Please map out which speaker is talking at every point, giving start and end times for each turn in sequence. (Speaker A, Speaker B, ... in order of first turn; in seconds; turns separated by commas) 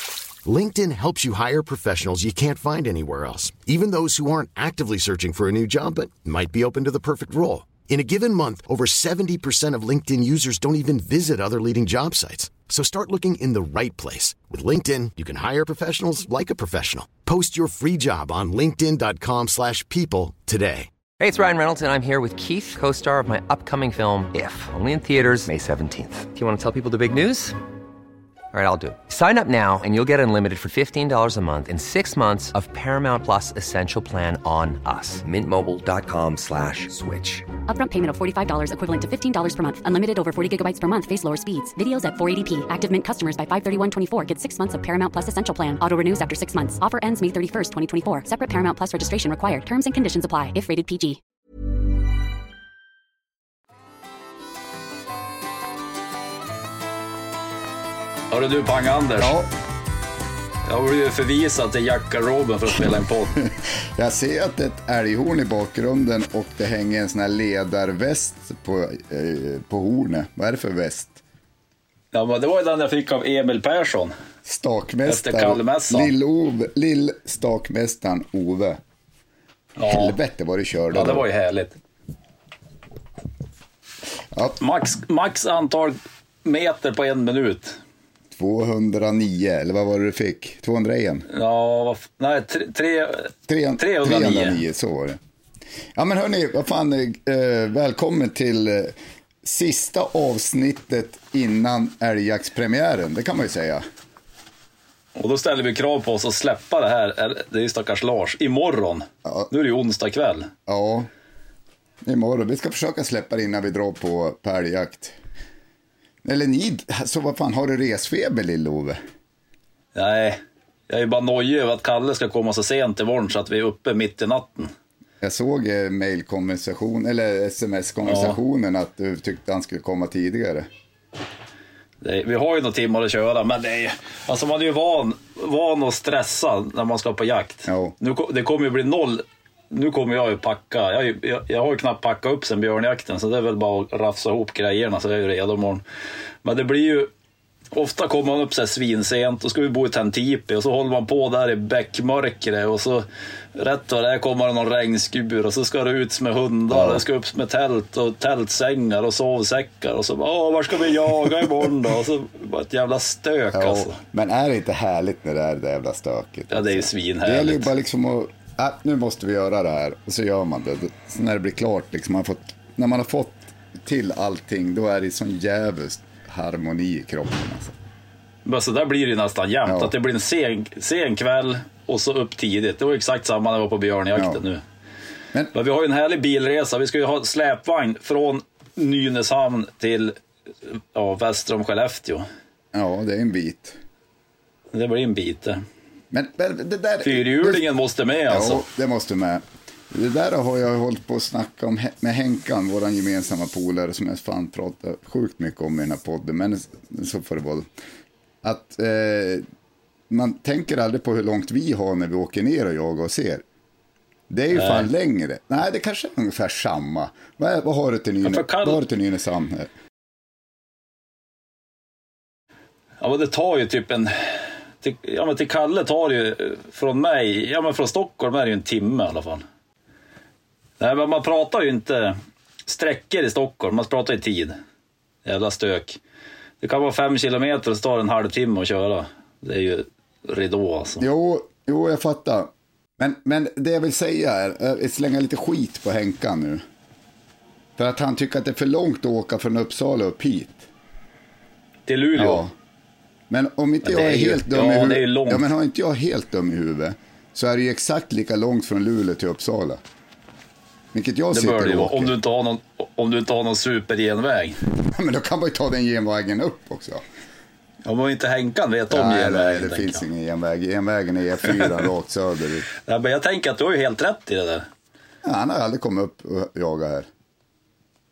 Speaker A: 0.4-20.9, Speaker B: 21.2-27.6, Speaker B: 28.5-37.5, Speaker C: 37.7-51.2, Speaker D: 58.3-59.4, Speaker E: 59.2-59.5, Speaker D: 60.6-63.4, Speaker E: 63.4-71.2, Speaker D: 72.1-74.1, Speaker E: 74.4-78.8, Speaker D: 75.0-76.1, Speaker D: 79.8-80.2, Speaker E: 79.8-81.2, Speaker D: 80.9-81.8, Speaker E: 84.3-84.6, Speaker D: 84.6-87.8, Speaker E: 88.3-91.3, Speaker D: 91.3-94.6, Speaker E: 93.5-95.2, Speaker E: 95.9-103.8, Speaker D: 105.2-110.5, Speaker E: 109.2-109.5, Speaker E: 110.7-111.1, Speaker E: 112.0-115.2, Speaker E: 116.2-119.0, Speaker D: 119.9-124.7, Speaker E: 125.2-130.7, Speaker D: 128.0-128.4, Speaker D: 132.0-145.8, Speaker E: 137.7-137.9, Speaker D: 146.4-147.1, Speaker D: 147.7-164.0, Speaker E: 156.7-157.0, Speaker E: 163.5-177.7, Speaker D: 166.5-167.7, Speaker D: 178.4-184.6, Speaker E: 179.6-179.9, Speaker E: 184.1-184.4, Speaker D: 185.5-192.2, Speaker E: 192.7-193.8, Speaker D: 194.7-195.6, Speaker E: 196.1-197.6, Speaker D: 197.0-198.6, Speaker E: 198.3-207.7, Speaker E: 208.4-209.4, Speaker E: 210.1-213.4, Speaker E: 214.3-219.7, Speaker D: 214.5-214.9, Speaker D: 218.2-218.8, Speaker D: 223.0-229.4, Speaker D: 230.8-234.6, Speaker D: 235.2-236.0, Speaker D: 236.6-241.0, Speaker E: 241.0-246.6, Speaker E: 247.8-250.7, Speaker D: 251.9-252.4, Speaker E: 252.2-252.5, Speaker E: 253.3-259.8, Speaker D: 253.8-255.5, Speaker E: 260.9-262.1, Speaker D: 261.3-264.6, Speaker E: 264.7-267.0, Speaker D: 267.8-270.0, Speaker E: 268.9-272.7, Speaker D: 272.8-274.7, Speaker E: 275.2-277.1